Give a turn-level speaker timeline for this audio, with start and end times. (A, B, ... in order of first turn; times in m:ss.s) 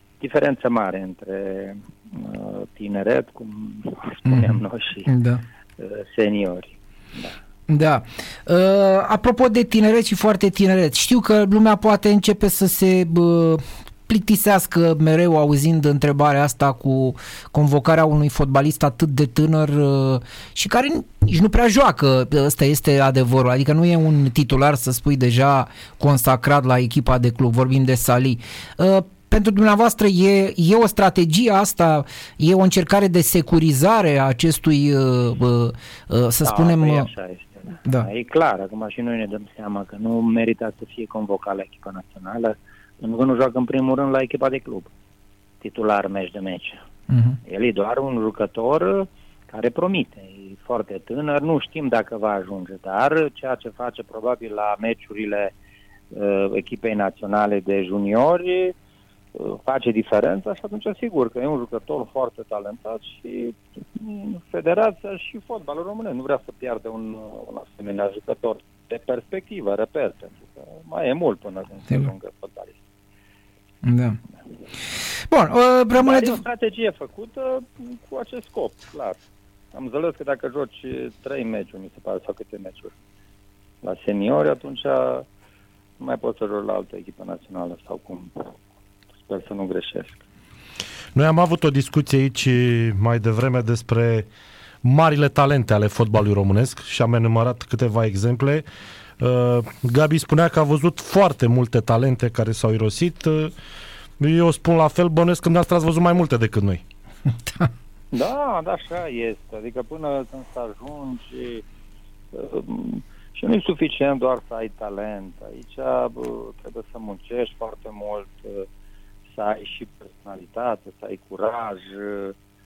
0:00.2-0:05.1 A
0:04.3-0:05.4 B
0:05.8-0:07.4 A
0:07.7-0:37.1 B
0:36.4-0:44.9 A
0:45.6-0:46.8 A
0:47.1-0:47.4 B
0:47.4-0:55.5 A
0:56.1-0:58.8 A
0:59.4-1:12.8 A
1:13.8-1:14.2 B
1:15.3-1:16.4 B
1:16.0-1:19.2 A
1:19.7-1:22.9 A
1:23.8-1:25.3 A
1:26.0-1:28.5 A
1:29.3-1:30.2 A
1:31.1-1:34.3 C
1:34.8-1:38.6 C
1:39.2-1:43.5 C
1:44.2-1:46.8 C
1:48.1-1:51.6 A
1:52.3-1:58.7 A
1:59.3-2:02.4 A